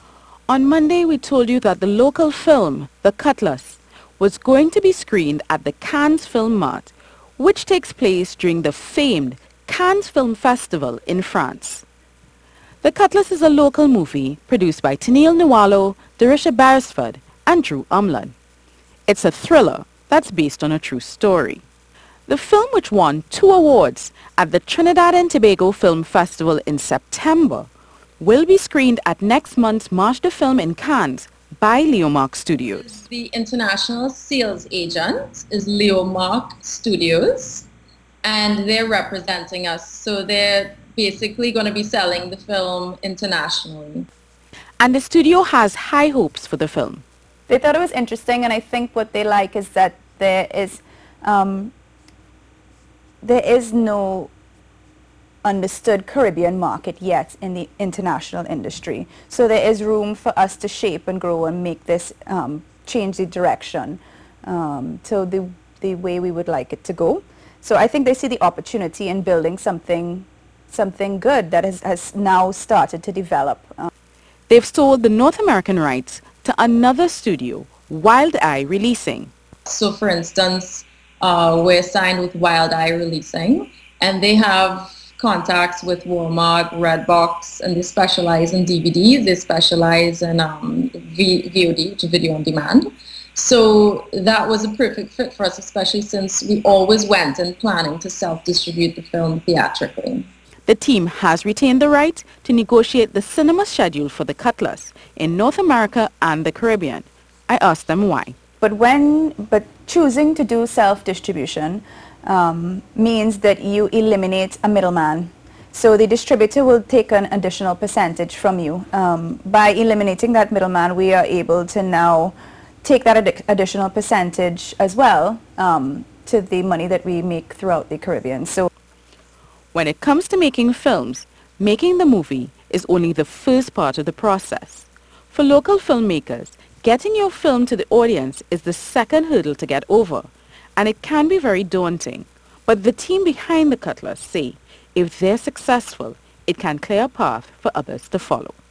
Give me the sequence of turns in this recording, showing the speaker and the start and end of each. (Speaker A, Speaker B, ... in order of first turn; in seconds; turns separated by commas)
Speaker A: 0.5-11.8, Speaker A: 12.8-18.3, Speaker A: 19.1-21.6, Speaker A: 22.3-33.0, Speaker B: 32.8-37.7, Speaker B: 38.2-44.1, Speaker A: 44.8-47.0, Speaker C: 47.5-51.7, Speaker C: 53.2-54.3, Speaker C: 55.4-73.9, Speaker A: 74.5-79.3, Speaker B: 79.7-100.3, Speaker A: 100.7-108.3, Speaker C: 108.6-128.7, Speaker A: 129.7-148.6